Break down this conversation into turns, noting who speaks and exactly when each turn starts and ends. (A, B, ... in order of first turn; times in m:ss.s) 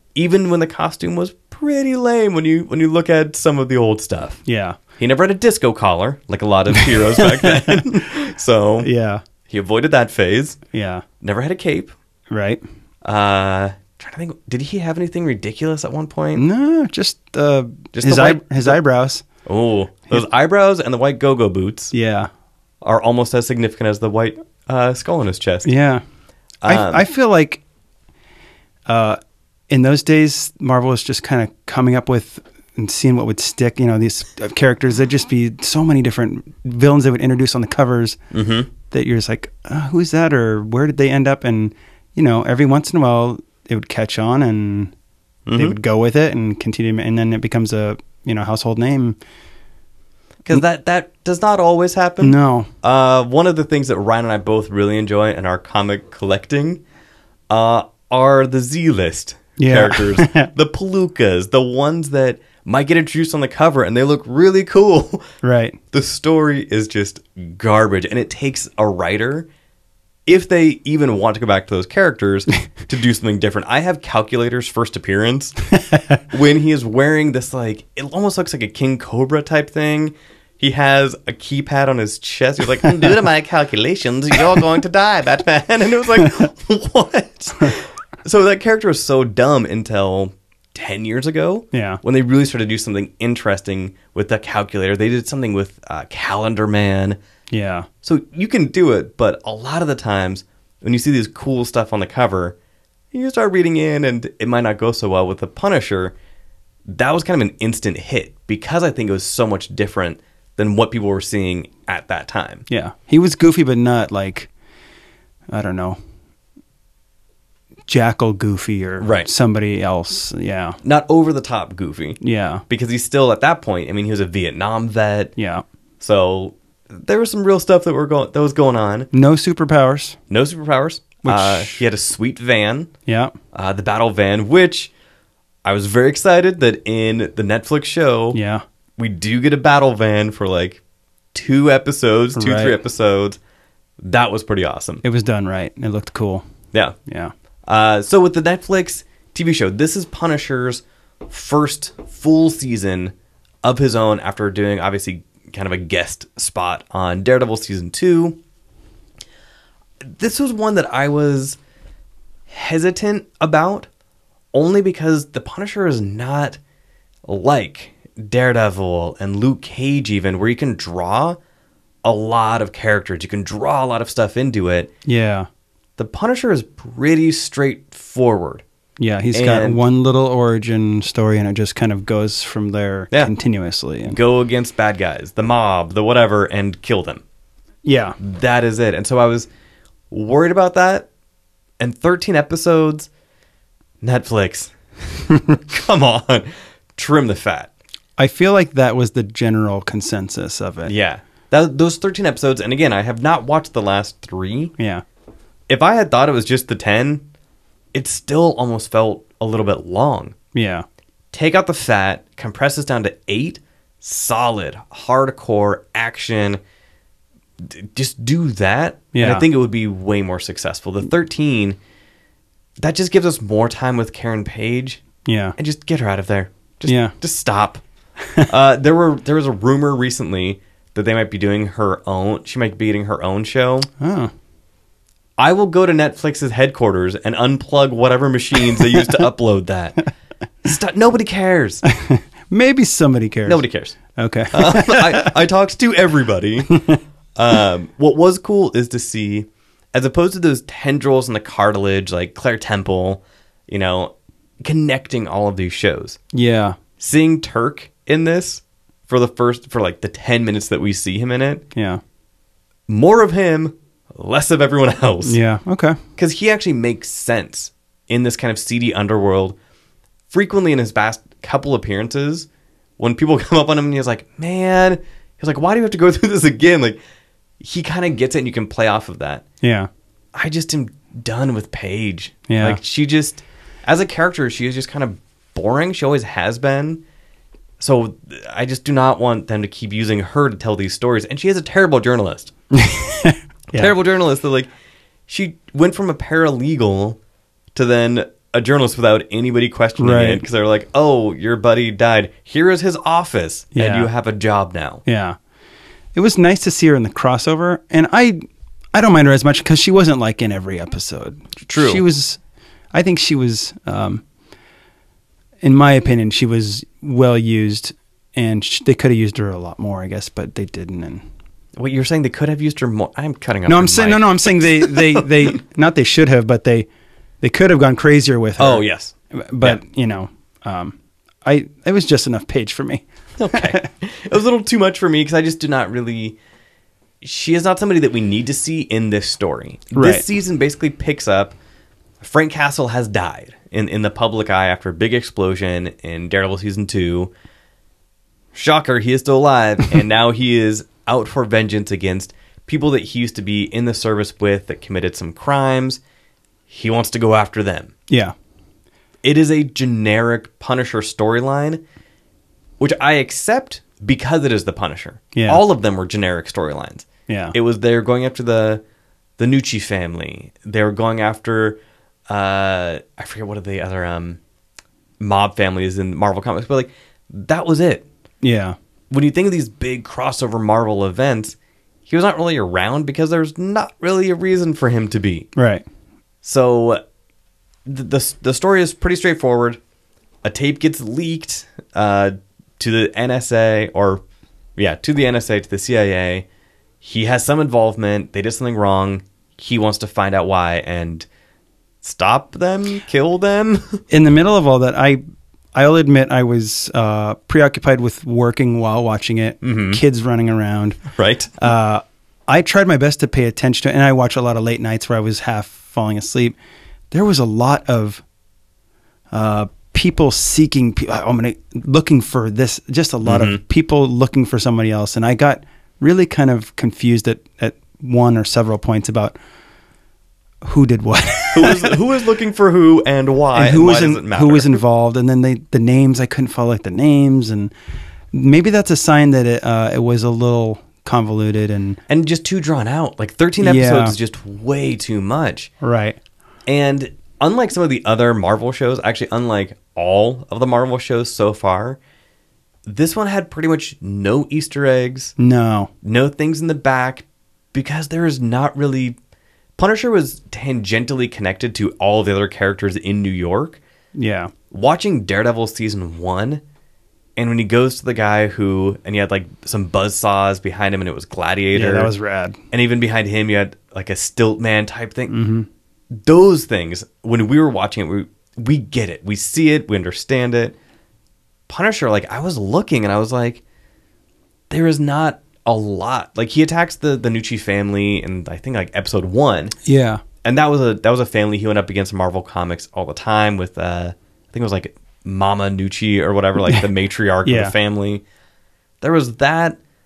0:00.2-0:04.4 A
0:04.4-0:04.8 B
0:05.0-0:08.9 A
0:06.7-0:07.9 B
0:08.8-0:09.2 B
0:09.5-0:10.6 A
0:10.7-0:11.0 B
0:11.2-0:11.9 A
0:12.3-0:12.6 B
0:13.0-0:16.4 A
0:16.4-0:19.2 B
0:17.9-0:18.8 A
0:19.4-0:21.9 A
0:21.9-0:22.3 B
0:22.8-0:25.7 A
0:25.6-0:26.0 B
0:26.6-0:27.0 A
0:26.6-0:27.6 B
0:28.9-0:38.2 B
0:38.3-0:38.7 A
0:38.9-0:44.9 B
0:45.5-0:45.8 A
0:45.6-0:49.2 B
0:50.4-0:56.8 A
0:52.2-0:52.7 B
0:57.5-1:05.3 A
0:59.6-1:00.5 B
1:05.4-1:05.8 B
1:05.9-1:09.5 A
1:10.2-1:15.6 A
1:15.9-1:16.2 B
1:16.3-1:37.2 A
1:31.7-1:32.0 B
1:37.5-1:37.9 B
1:38.0-1:42.6 A
1:43.1-1:46.1 A
1:46.9-1:52.6 A
1:52.7-1:54.5 B
1:55.5-1:56.0 B
1:57.9-2:00.8 B
1:59.0-1:59.3 A
2:00.8-2:05.3 A
2:02.2-2:02.6 B
2:05.4-2:05.6 B
2:06.0-2:09.1 A
2:09.1-2:10.2 B
2:10.3-2:12.9 A
2:11.2-2:11.8 B
2:13.1-2:13.3 B
2:13.5-2:14.9 A
2:15.6-2:18.4 A
2:18.3-2:18.6 B
2:19.0-2:20.8 A
2:21.3-2:23.4 A
2:22.4-2:22.8 B
2:24.0-2:25.0 A
2:25.0-2:26.4 B
2:27.1-2:27.3 B
2:27.7-2:38.4 A
2:40.0-2:41.6 A
2:42.5-2:43.9 A
2:44.5-2:46.6 A
2:47.2-2:51.4 A
2:52.0-2:54.9 A
2:55.1-2:55.5 B
2:56.0-2:58.6 A
2:59.0-3:04.2 B
2:59.3-2:59.8 A
3:04.0-3:07.2 A
3:07.8-3:08.2 B
3:08.2-3:09.5 A
3:10.1-3:11.1 A
3:11.8-3:13.1 A
3:14.0-3:14.7 A
3:15.3-3:17.7 A
3:18.2-3:20.9 B
3:20.8-3:24.7 A
3:24.8-3:25.0 B
3:25.7-3:27.2 A
3:27.9-3:30.4 A
3:30.5-3:30.8 B
3:31.3-3:36.6 A
3:37.6-3:41.8 A
3:39.1-3:39.4 B
3:42.8-3:45.0 A
3:45.2-3:45.6 B
3:45.6-3:47.8 A
3:46.9-3:47.1 B
3:48.4-3:53.9 A
3:54.0-3:54.3 B
3:55.4-4:00.0 A
4:00.6-4:01.8 A
4:01.9-4:03.6 B
4:03.4-4:04.0 A
4:04.1-4:05.4 B
4:04.5-4:16.2 A
4:06.7-4:07.0 B
4:16.3-4:16.8 B
4:17.0-4:21.6 A
4:21.7-4:22.0 B
4:22.9-4:25.4 A
4:25.2-4:26.0 B
4:26.2-4:29.6 A
4:30.3-4:32.5 A
4:33.0-4:37.0 A
4:37.6-4:39.4 A
4:39.6-4:39.9 B
4:40.4-4:47.0 A
4:42.5-4:42.8 B
4:47.8-4:52.5 A
4:52.7-4:53.9 B
4:53.7-4:54.7 A
4:55.3-4:57.2 A
4:57.7-5:05.0 A
5:00.0-5:00.4 B
5:03.7-5:04.1 B
5:05.1-5:05.4 B
5:06.1-5:08.4 B
5:08.9-5:12.4 B
5:11.6-5:12.0 A
5:12.9-5:14.2 B
5:15.6-5:21.2 B
5:21.8-5:25.6 A
5:23.7-5:26.9 B
5:27.4-5:33.8 B
5:28.6-5:29.8 A
5:33.4-5:36.4 A
5:37.2-5:41.6 A
5:39.9-5:40.2 B
5:42.2-5:47.3 A
5:48.5-5:56.0 A
5:56.7-5:57.9 A
5:58.1-5:58.4 B
5:59.2-6:01.8 A
6:02.8-6:08.8 A
6:05.3-6:05.6 B
6:07.3-6:07.6 B
6:09.4-6:14.4 A
6:15.2-6:18.0 A
6:18.4-6:18.8 B
6:19.1-6:21.6 A
6:22.1-6:25.5 A
6:25.6-6:25.8 B
6:26.4-6:27.0 A
6:27.9-6:29.8 A
6:30.4-6:34.2 A
6:34.8-6:36.4 A
6:37.0-6:41.2 A
6:42.0-6:44.0 A
6:44.1-6:45.2 B
6:45.7-6:51.0 B
6:49.6-6:50.0 A
6:51.1-6:51.6 A
6:51.6-6:56.6 B
6:57.1-6:58.2 B
6:59.3-7:09.4 B
7:03.2-7:03.6 A
7:10.6-7:12.0 B
7:11.5-7:14.8 A
7:13.5-7:17.7 B
7:18.3-7:22.0 B
7:22.1-7:25.7 A
7:23.6-7:24.2 B
7:25.8-7:26.2 B
7:26.7-7:32.0 A
7:32.9-7:35.3 A
7:35.4-7:35.9 B
7:36.0-7:39.2 A
7:39.8-7:43.8 A
7:44.1-7:44.5 B
7:44.7-7:46.6 A
7:47.4-7:52.1 A
7:51.7-7:52.6 B
7:52.7-7:55.4 A
7:55.3-7:55.7 B
7:56.2-8:00.8 A
8:01.7-8:03.6 A
8:04.7-8:09.7 A
8:09.8-8:10.2 B
8:10.4-8:18.2 A
8:17.4-8:17.7 B
8:19.0-8:19.8 A